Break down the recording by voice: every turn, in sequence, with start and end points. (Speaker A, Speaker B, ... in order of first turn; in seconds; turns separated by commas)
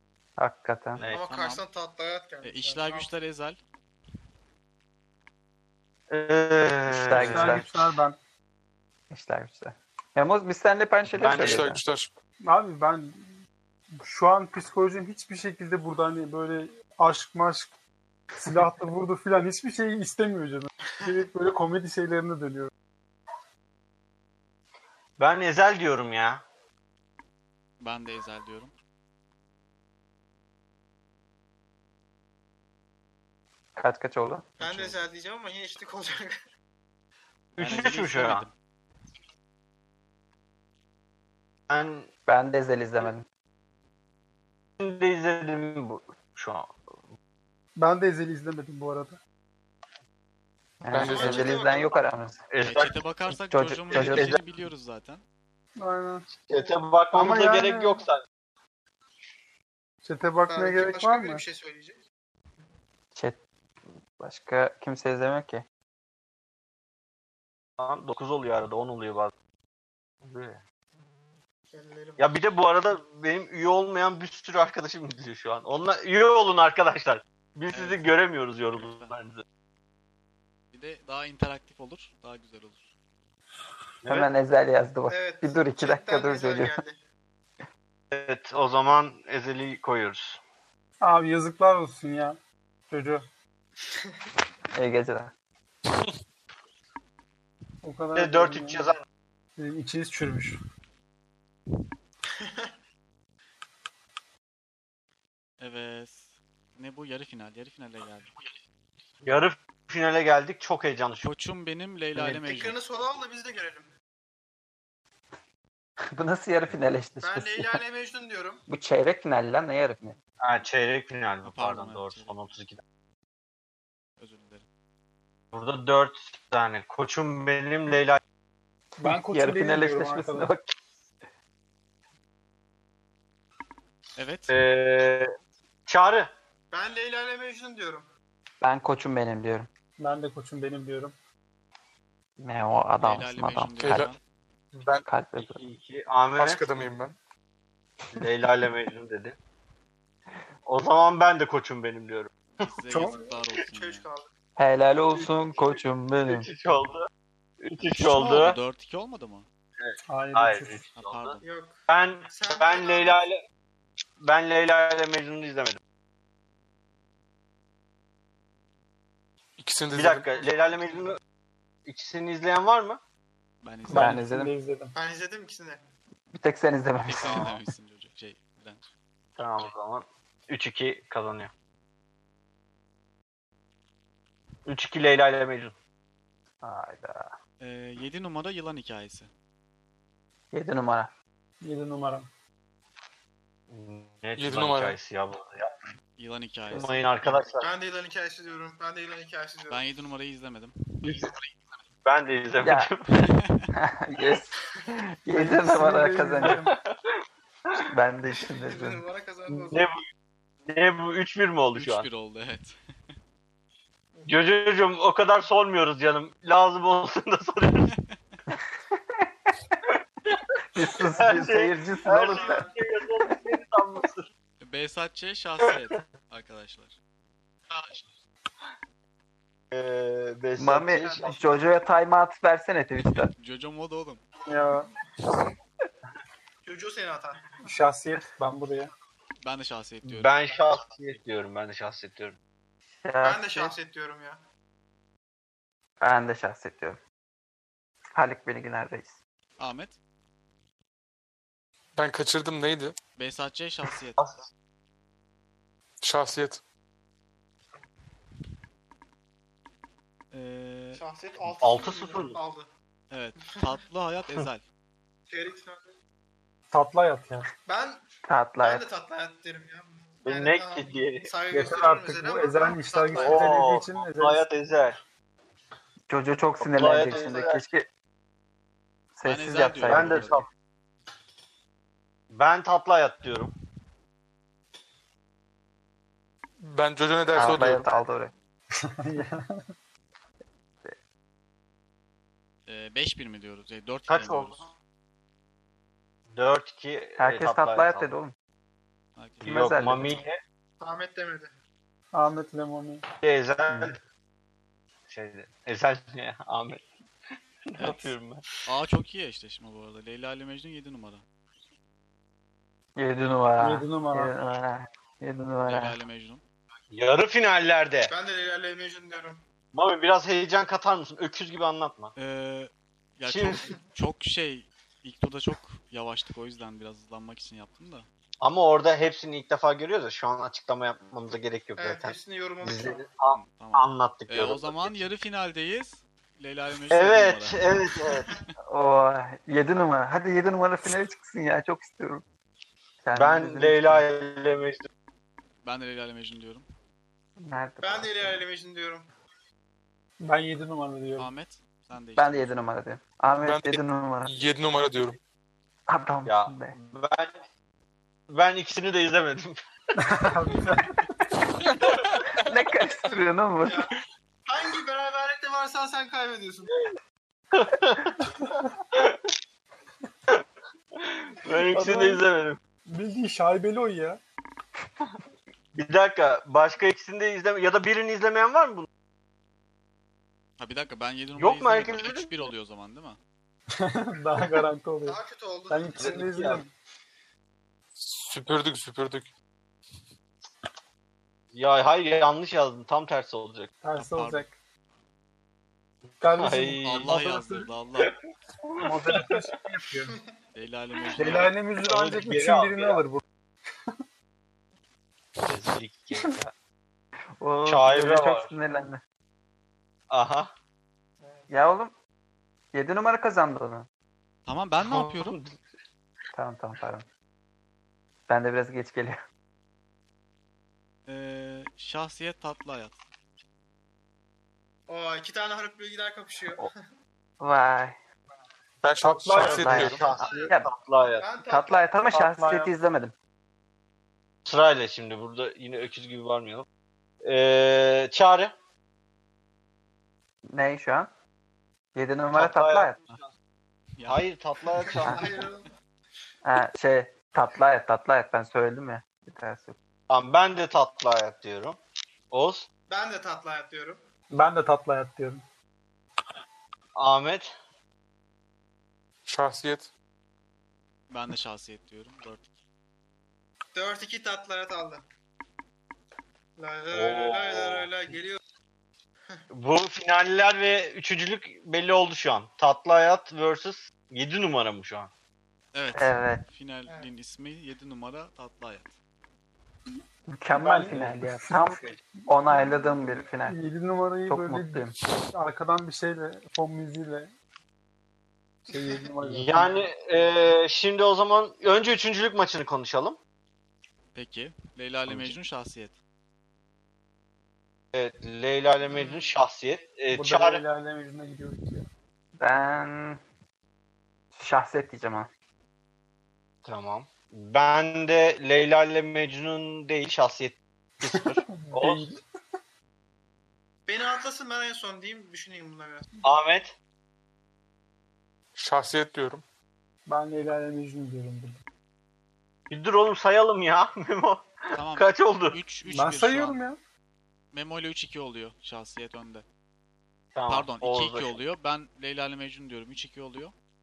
Speaker A: 0.4-1.0, Speaker B: 1.0-1.2, Speaker C: 1.0-1.6, Speaker D: 1.1-3.1, Speaker C: 2.4-3.6, Speaker B: 6.1-7.7, Speaker A: 6.9-7.7, Speaker E: 7.1-8.2, Speaker A: 9.1-11.8, Speaker B: 11.2-11.7, Speaker F: 11.2-12.1, Speaker E: 12.4-13.3, Speaker E: 14.0-17.7, Speaker E: 18.4-22.7, Speaker B: 25.2-26.4, Speaker C: 27.8-28.7, Speaker A: 33.8-34.5, Speaker C: 34.6-35.0, Speaker D: 34.6-36.4, Speaker B: 37.6-38.5, Speaker C: 37.6-38.5, Speaker B: 41.7-42.1, Speaker A: 42.3-43.3, Speaker B: 44.8-46.7, Speaker E: 47.8-49.2, Speaker A: 50.8-52.4, Speaker F: 50.9-51.6, Speaker D: 51.0-52.0, Speaker B: 52.5-53.0, Speaker C: 52.6-55.2, Speaker A: 53.3-54.4, Speaker B: 53.9-54.4, Speaker E: 55.8-56.3, Speaker B: 56.5-58.2, Speaker E: 57.1-58.0, Speaker E: 60.0-61.4, Speaker D: 60.5-62.0, Speaker A: 64.2-65.6, Speaker B: 67.8-69.3, Speaker B: 70.2-70.6, Speaker D: 71.7-72.3, Speaker B: 72.2-79.4, Speaker C: 77.7-78.1, Speaker C: 78.7-79.1, Speaker C: 80.7-82.9, Speaker B: 84.0-84.3, Speaker A: 84.1-86.8, Speaker D: 85.1-87.0, Speaker B: 88.1-90.4, Speaker E: 91.0-92.4, Speaker E: 92.9-93.2, Speaker A: 94.7-95.3, Speaker E: 97.8-99.0, Speaker B: 98.2-99.0, Speaker E: 99.6-100.6, Speaker D: 102.3-102.7, Speaker C: 105.6-108.3, Speaker B: 109.2-111.3, Speaker C: 111.2-112.8, Speaker D: 112.4-113.9, Speaker A: 116.2-117.8, Speaker D: 117.2-118.6, Speaker A: 118.7-120.2, Speaker B: 120.4-122.8, Speaker C: 121.4-122.5, Speaker C: 124.2-124.6, Speaker B: 125.5-128.2, Speaker E: 129.0-130.5, Speaker A: 129.0-130.6, Speaker C: 134.2-134.6, Speaker B: 134.5-135.3, Speaker B: 135.9-136.3, Speaker D: 136.7-138.1, Speaker A: 138.6-139.7, Speaker E: 140.0-141.1, Speaker A: 142.4-144.1, Speaker C: 143.0-144.2, Speaker F: 143.8-144.2, Speaker F: 144.7-145.0, Speaker A: 145.1-145.6, Speaker B: 145.4-146.6, Speaker F: 146.4-147.2, Speaker B: 148.2-149.4, Speaker B: 150.7-152.3, Speaker C: 152.6-154.1, Speaker E: 152.9-153.3, Speaker D: 153.7-154.3, Speaker A: 154.6-156.5, Speaker B: 155.1-157.1, Speaker B: 157.6-158.6, Speaker C: 157.9-159.5, Speaker B: 159.8-163.4, Speaker E: 160.1-160.9, Speaker C: 160.9-161.4, Speaker D: 161.4-161.8, Speaker D: 162.3-163.2, Speaker B: 164.2-165.8, Speaker F: 169.6-170.5, Speaker B: 169.9-171.2, Speaker B: 171.9-173.0, Speaker C: 173.6-174.2, Speaker E: 173.9-174.9, Speaker A: 173.9-174.5, Speaker D: 174.9-175.8, Speaker A: 176.3-177.6, Speaker C: 177.1-178.8, Speaker B: 179.4-181.5, Speaker B: 184.7-185.8, Speaker A: 186.6-187.3, Speaker C: 187.6-189.3, Speaker A: 190.5-191.1, Speaker E: 191.6-192.3, Speaker B: 193.7-195.7, Speaker F: 194.4-195.0, Speaker C: 196.2-197.4, Speaker B: 196.7-197.7, Speaker D: 197.6-199.8, Speaker C: 199.7-201.3, Speaker B: 201.0-201.3, Speaker B: 202.1-203.3, Speaker A: 202.6-202.9, Speaker C: 203.2-203.7, Speaker A: 203.7-206.6, Speaker E: 205.3-206.8, Speaker B: 206.4-206.9, Speaker A: 207.9-209.0, Speaker D: 208.7-209.9, Speaker B: 209.5-210.0, Speaker B: 210.7-212.1, Speaker C: 211.8-212.8, Speaker D: 214.2-214.4, Speaker B: 214.3-217.9, Speaker A: 220.7-222.7, Speaker B: 221.0-224.3, Speaker D: 222.1-222.8, Speaker C: 224.6-226.9, Speaker B: 229.7-231.4, Speaker A: 230.6-233.3, Speaker D: 230.9-231.7, Speaker C: 233.3-234.2, Speaker E: 234.5-234.9, Speaker D: 236.7-237.5, Speaker E: 237.6-238.9, Speaker C: 239.4-240.6, Speaker B: 240.1-242.4, Speaker A: 243.1-243.8, Speaker D: 243.2-244.4, Speaker A: 246.0-247.0, Speaker A: 248.2-249.2, Speaker C: 249.6-250.0, Speaker F: 252.0-253.0, Speaker C: 253.2-254.2, Speaker F: 256.0-256.6, Speaker C: 260.3-261.0, Speaker D: 260.9-262.7, Speaker B: 261.5-262.4, Speaker C: 263.1-264.6, Speaker D: 265.3-265.9, Speaker E: 266.7-267.5, Speaker D: 267.7-268.0, Speaker A: 268.3-268.9, Speaker D: 268.6-273.8, Speaker B: 270.2-271.3, Speaker E: 271.5-274.4, Speaker B: 273.1-275.0, Speaker A: 276.1-277.9, Speaker B: 276.6-277.6, Speaker A: 279.2-280.4, Speaker C: 279.2-280.4, Speaker B: 279.8-280.5, Speaker B: 282.3-283.5, Speaker F: 286.6-287.9, Speaker A: 287.4-288.3, Speaker E: 288.8-289.7, Speaker C: 292.7-294.7, Speaker B: 294.1-294.7, Speaker B: 296.3-298.1, Speaker A: 297.2-298.3, Speaker C: 299.2-299.6, Speaker B: 299.4-300.4, Speaker A: 299.4-300.2, Speaker D: 300.8-301.5, Speaker E: 302.1-303.0, Speaker B: 303.2-304.0, Speaker B: 305.1-306.8, Speaker B: 307.7-308.4, Speaker C: 307.8-311.2, Speaker A: 313.0-316.0, Speaker E: 313.6-314.3, Speaker C: 315.7-316.4, Speaker B: 316.9-318.1, Speaker D: 318.1-319.4, Speaker B: 319.7-322.1, Speaker C: 322.2-328.1, Speaker B: 323.2-323.7, Speaker B: 328.4-335.0, Speaker D: 331.8-333.0, Speaker C: 333.4-338.4, Speaker B: 336.9-338.3, Speaker A: 338.7-342.2, Speaker A: 343.0-344.1, Speaker B: 343.1-344.9, Speaker C: 345.6-346.7, Speaker A: 347.4-348.4, Speaker D: 347.8-349.1, Speaker E: 350.2-351.3, Speaker C: 351.2-352.5, Speaker A: 352.2-354.4, Speaker F: 353.4-355.2, Speaker A: 355.9-356.8, Speaker B: 356.3-357.4, Speaker B: 358.3-359.6, Speaker E: 360.0-361.0, Speaker F: 361.8-362.3, Speaker A: 362.4-363.9, Speaker D: 363.6-363.9, Speaker D: 364.5-366.9, Speaker B: 367.5-368.2, Speaker B: 368.9-369.2, Speaker B: 371.0-372.6, Speaker E: 371.6-372.2, Speaker E: 372.9-374.2, Speaker B: 375.7-378.9, Speaker C: 380.6-383.2, Speaker B: 381.4-382.5, Speaker E: 383.7-386.7, Speaker D: 385.1-386.2, Speaker B: 386.0-386.6, Speaker F: 388.0-389.3, Speaker B: 391.5-393.7, Speaker E: 393.8-394.5, Speaker C: 393.9-394.5, Speaker E: 396.2-397.6, Speaker B: 396.4-397.5, Speaker C: 396.8-398.1, Speaker B: 398.7-399.5, Speaker E: 398.8-400.2, Speaker C: 400.6-401.5, Speaker B: 401.1-403.0, Speaker E: 401.2-403.2, Speaker B: 405.4-406.5, Speaker A: 407.4-409.0, Speaker B: 407.7-408.5, Speaker B: 410.1-410.5, Speaker D: 411.2-411.5, Speaker A: 411.5-411.9, Speaker A: 412.7-413.9, Speaker C: 414.5-415.4, Speaker B: 414.8-415.6, Speaker A: 416.3-417.1, Speaker A: 418.3-419.2, Speaker C: 421.1-423.0, Speaker D: 424.9-426.7, Speaker A: 427.4-428.0, Speaker F: 428.8-430.1, Speaker E: 429.2-429.9, Speaker A: 429.3-430.7, Speaker B: 429.5-431.3, Speaker D: 430.1-430.5, Speaker D: 431.2-431.9, Speaker A: 431.5-433.1, Speaker E: 432.1-432.7, Speaker B: 434.4-436.7, Speaker B: 437.2-438.5, Speaker A: 440.5-441.1, Speaker A: 441.9-443.2, Speaker B: 442.3-443.3, Speaker C: 444.0-444.2, Speaker B: 444.1-445.2, Speaker C: 444.8-445.5, Speaker D: 445.0-445.7, Speaker A: 446.4-449.8, Speaker B: 450.1-451.8, Speaker B: 452.3-452.7, Speaker D: 452.9-454.0, Speaker E: 454.3-455.4, Speaker B: 457.0-457.5, Speaker F: 459.3-459.9, Speaker C: 461.1-462.4, Speaker D: 463.8-465.0, Speaker D: 466.6-468.4, Speaker B: 466.9-467.9, Speaker B: 469.5-475.1, Speaker C: 475.7-478.9, Speaker A: 475.9-476.4, Speaker A: 480.3-483.6, Speaker E: 480.5-481.9, Speaker E: 482.5-487.3, Speaker A: 484.3-484.9, Speaker E: 488.7-489.9, Speaker B: 489.2-493.2, Speaker C: 494.1-495.9, Speaker B: 495.1-495.4, Speaker B: 497.9-500.6, Speaker D: 498.9-499.2, Speaker E: 500.1-501.9, Speaker A: 502.4-503.2, Speaker A: 504.4-505.3, Speaker B: 506.6-512.1, Speaker E: 511.2-512.2, Speaker D: 513.9-516.1, Speaker B: 516.2-516.8, Speaker F: 518.6-519.4, Speaker E: 520.1-521.6, Speaker B: 522.7-525.6, Speaker C: 524.7-526.6, Speaker E: 525.9-526.8, Speaker C: 527.5-529.4, Speaker B: 530.4-531.4, Speaker C: 530.5-533.5